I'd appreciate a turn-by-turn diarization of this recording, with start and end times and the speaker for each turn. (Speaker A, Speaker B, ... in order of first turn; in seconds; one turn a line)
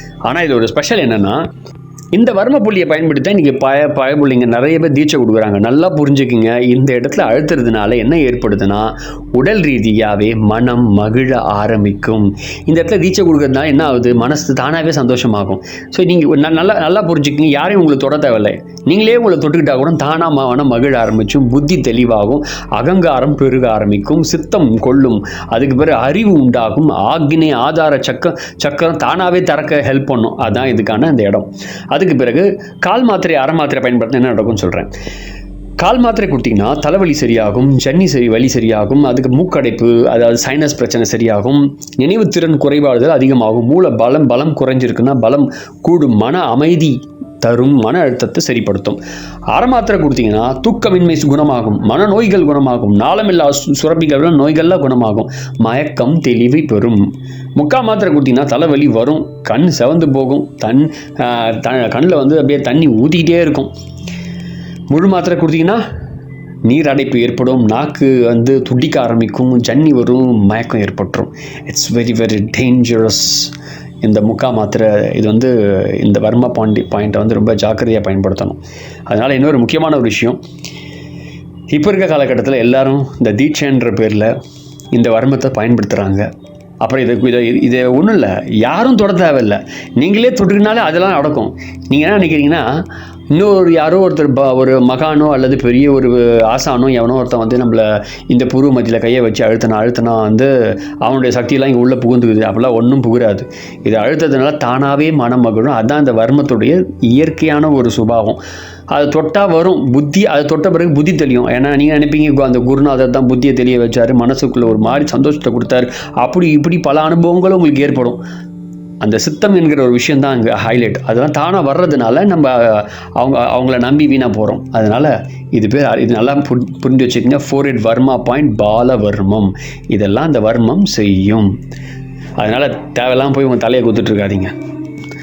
Speaker A: 0.3-1.5
Speaker A: 2.1-34.9
Speaker A: 35.8-49.0
Speaker A: 49.5-57.0
Speaker A: 57.6-63.7
Speaker A: 64.9-65.8
Speaker A: 66.7-73.5
Speaker A: 74.0-80.4
Speaker A: 81.7-84.3
Speaker A: 84.9-86.3
Speaker A: 86.8-92.7
Speaker A: 93.3-108.4
Speaker A: 108.9-118.2
Speaker A: 119.0-131.5
Speaker A: 132.4-134.5